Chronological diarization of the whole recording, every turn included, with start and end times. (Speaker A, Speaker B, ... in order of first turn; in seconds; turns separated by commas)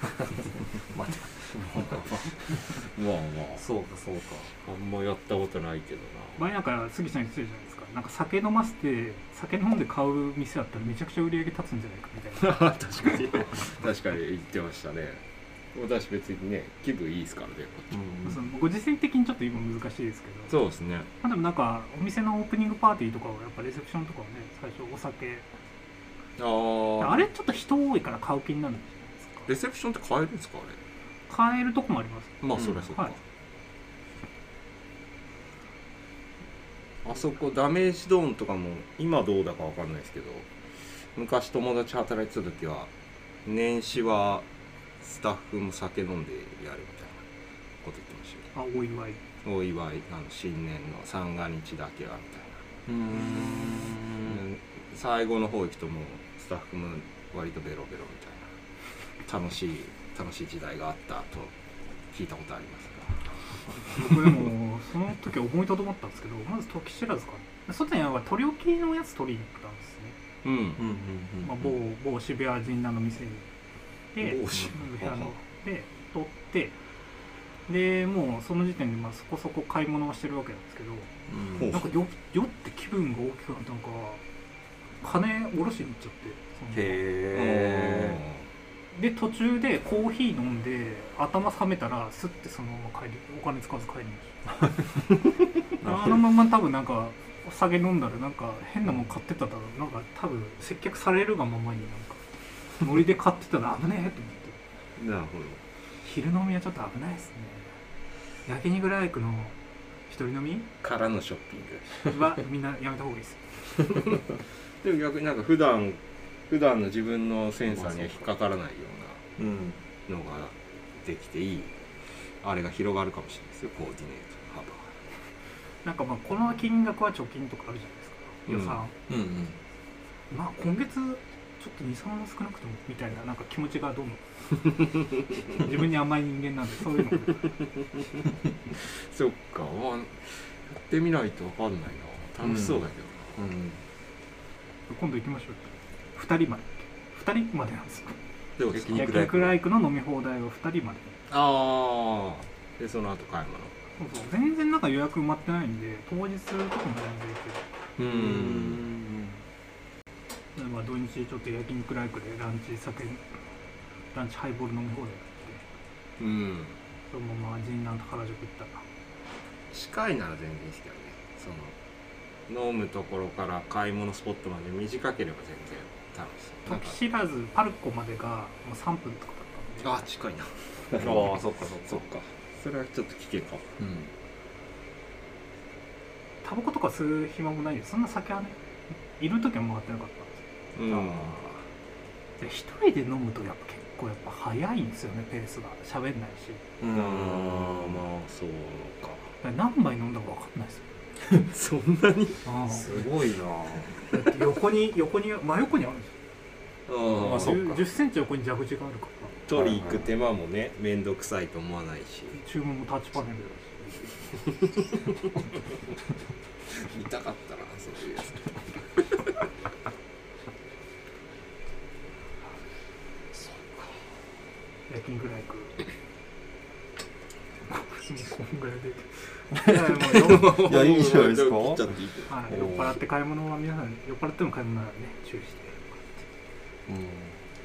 Speaker A: 0.9-3.7, Speaker B: 3.5-4.5, Speaker A: 4.6-6.5, Speaker C: 6.4-12.6, Speaker A: 12.4-15.2, Speaker A: 15.7-18.0, Speaker B: 17.9-18.4, Speaker C: 18.2-20.5, Speaker A: 20.5-21.1, Speaker C: 21.2-25.5, Speaker A: 26.4-27.3, Speaker C: 27.0-29.5, Speaker A: 29.5-30.8, Speaker C: 31.3-33.2, Speaker A: 32.4-33.2, Speaker B: 32.5-32.8, Speaker A: 37.0-40.5, Speaker A: 41.1-42.9, Speaker A: 43.4-44.5, Speaker A: 45.0-47.2, Speaker A: 47.8-48.5, Speaker C: 48.5-49.2, Speaker A: 49.4-52.6, Speaker B: 52.9-54.4, Speaker A: 54.2-58.5, Speaker A: 59.2-61.5, Speaker A: 62.1-63.2, Speaker C: 63.9-70.2, Speaker A: 70.4-70.8, Speaker B: 70.8-71.7, Speaker C: 71.4-73.5, Speaker C: 74.1-76.8, Speaker A: 74.2-75.3, Speaker C: 77.7-81.1, Speaker B: 81.3-81.7, Speaker A: 81.5-81.9, Speaker C: 81.7-84.2, Speaker C: 85.0-87.0, Speaker B: 86.7-88.2, Speaker A: 87.3-88.5, Speaker C: 88.9-94.4, Speaker B: 95.8-96.3, Speaker C: 95.8-102.2, Speaker C: 102.8-104.6, Speaker A: 105.0-105.6, Speaker C: 106.0-107.8, Speaker C: 108.5-109.6, Speaker C: 110.1-110.7, Speaker A: 110.8-112.4, Speaker C: 112.1-113.5, Speaker A: 114.8-119.2, Speaker B: 117.7-118.2, Speaker B: 119.4-119.8, Speaker A: 120.1-121.7, Speaker A: 122.4-124.9, Speaker C: 125.8-128.9, Speaker A: 128.5-128.8, Speaker B: 129.1-129.6, Speaker C: 130.3-134.2, Speaker C: 135.5-137.5, Speaker A: 138.2-143.4, Speaker B: 142.4-143.8, Speaker C: 144.9-148.2, Speaker A: 148.6-149.4, Speaker B: 148.7-149.6, Speaker C: 148.9-151.2, Speaker A: 151.3-153.7, Speaker C: 154.0-157.6, Speaker A: 158.0-158.9, Speaker B: 158.0-159.4, Speaker C: 160.5-163.4, Speaker C: 164.1-165.6, Speaker A: 166.2-166.8, Speaker C: 167.1-168.8, Speaker A: 169.7-171.7, Speaker A: 172.5-177.1, Speaker C: 176.7-180.0, Speaker A: 179.8-183.8, Speaker B: 180.9-182.1, Speaker B: 183.8-184.1, Speaker C: 186.4-188.6, Speaker C: 189.2-190.4, Speaker A: 190.7-191.4, Speaker B: 190.8-191.6, Speaker C: 192.4-196.6, Speaker B: 196.8-198.0, Speaker A: 196.9-199.3, Speaker C: 199.4-200.8, Speaker A: 201.3-202.4, Speaker C: 202.4-203.1, Speaker B: 202.6-204.1, Speaker C: 204.0-206.2, Speaker A: 206.9-207.6, Speaker C: 207.1-209.4, Speaker B: 207.1-207.8, Speaker A: 209.5-212.4, Speaker B: 209.5-210.1, Speaker C: 212.3-214.2, Speaker A: 216.7-219.0, Speaker A: 223.3-224.0, Speaker C: 224.9-225.8, Speaker C: 227.7-230.7, Speaker A: 230.1-232.5, Speaker B: 230.3-233.0, Speaker C: 232.3-236.2, Speaker B: 236.9-237.4